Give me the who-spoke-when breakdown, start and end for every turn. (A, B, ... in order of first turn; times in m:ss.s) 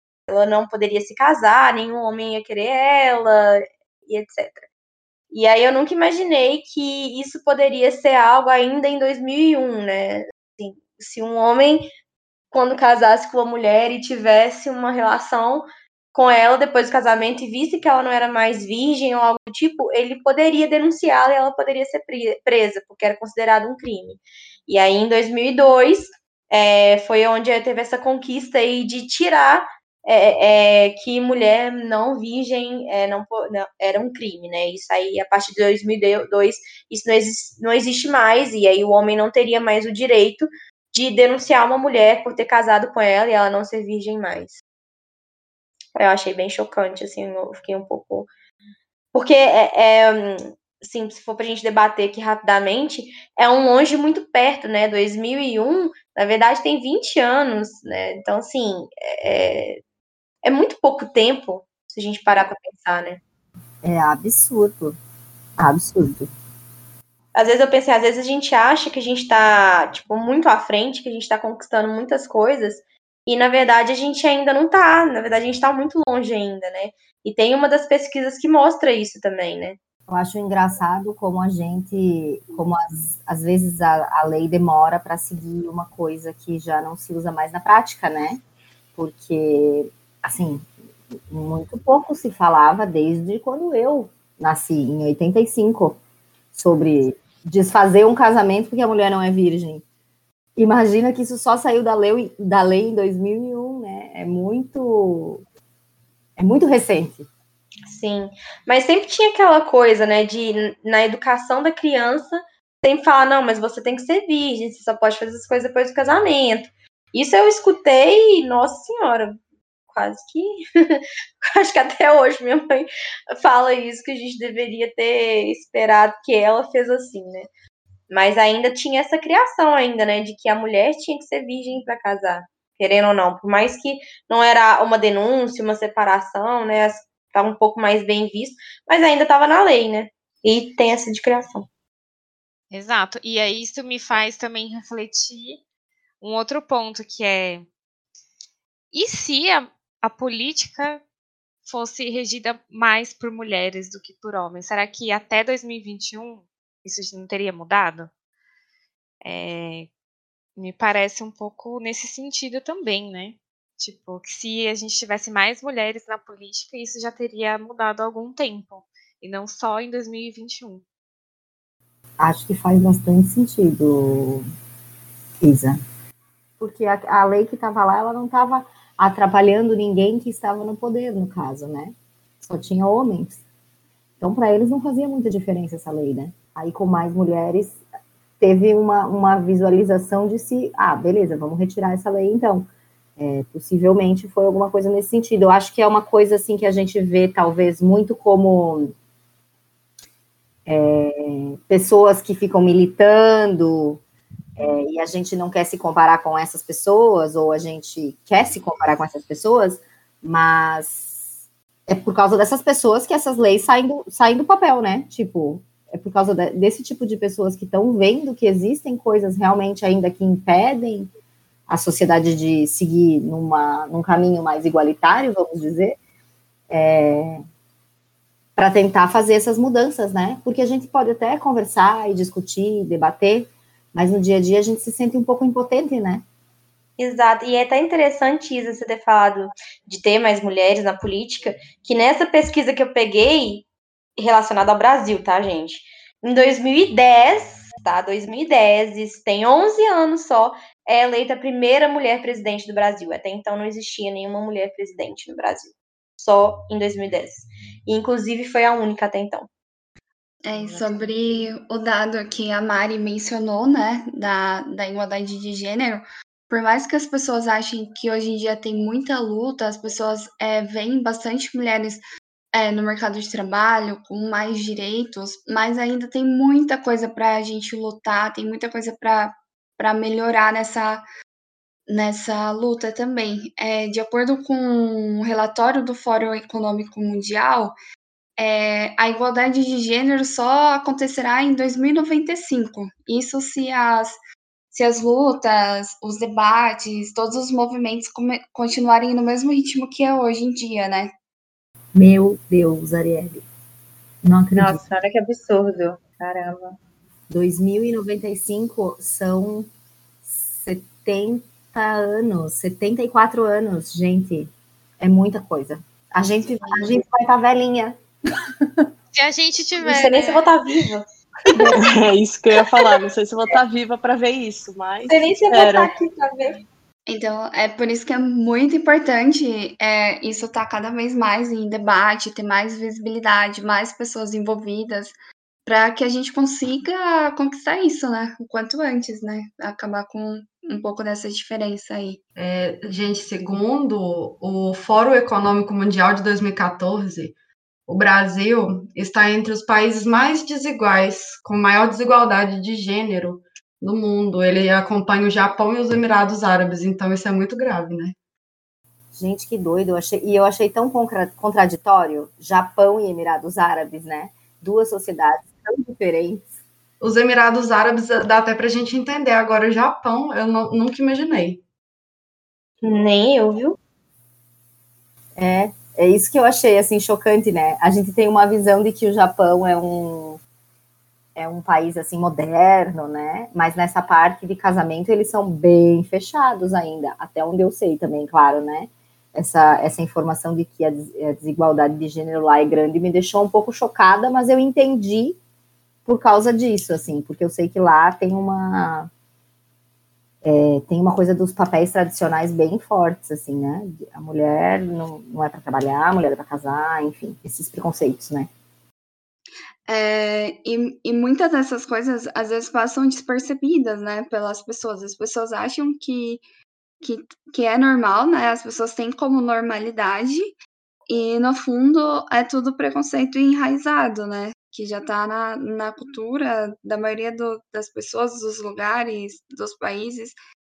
0:00.3-0:04.6 A
0:05.3-0:11.9 A
0:12.5-0:44.6 A
0:46.0-0:48.3 A
0:49.1-0:59.8 A
1:00.4-1:03.2 A
1:03.8-1:05.0 B
1:05.6-1:06.3 B
1:07.3-1:19.8 A
1:20.1-1:28.4 B
1:28.9-1:30.7 B
1:31.3-1:36.0 B
1:36.5-1:39.8 B
1:40.6-1:45.4 B
1:46.4-1:47.3 B
1:47.9-1:59.4 A
1:59.9-2:07.5 A
2:08.1-2:21.7 A
2:22.7-2:25.6 C
2:26.2-2:27.6 C
2:28.9-2:31.0 C
2:31.6-2:38.1 C
2:39.2-2:39.9 C
2:40.6-2:50.8 C
2:52.2-2:54.4 B
2:55.4-2:55.8 B
2:56.6-3:03.4 B
3:04.2-3:07.8 B
3:08.4-3:18.9 B
3:20.6-3:24.0 B
3:24.6-3:31.1 B
3:31.9-3:41.1 B
3:41.7-3:46.0 B
3:46.7-3:47.4 B
3:48.6-3:56.2 B
3:57.0-4:03.6 A
4:04.2-4:19.5 A
4:20.4-4:32.0 D
4:20.6-4:21.0 A
4:32.5-4:41.0 D
4:41.9-4:47.7 D
4:48.4-4:54.2 D
4:54.7-5:01.1 D
5:01.9-5:03.4 B
5:04.2-5:04.8 B
5:04.6-5:06.8 E
5:07.3-5:09.7 B
5:10.2-5:18.0 B
5:19.1-5:20.4 C
5:19.8-5:21.8 A
5:21.5-5:25.9 F
5:25.1-5:26.6 A
5:27.1-5:42.2 D
5:42.4-5:47.3 G
5:47.9-5:58.1 G
5:59.1-6:06.5 B
6:07.0-6:11.6 G
6:12.8-6:13.8 A
6:15.4-6:20.4 B
6:21.4-6:35.4 B
6:36.0-6:39.1 B
6:40.4-6:48.5 B
6:49.9-6:56.4 D
6:57.0-7:00.5 D
7:01.1-7:10.4 D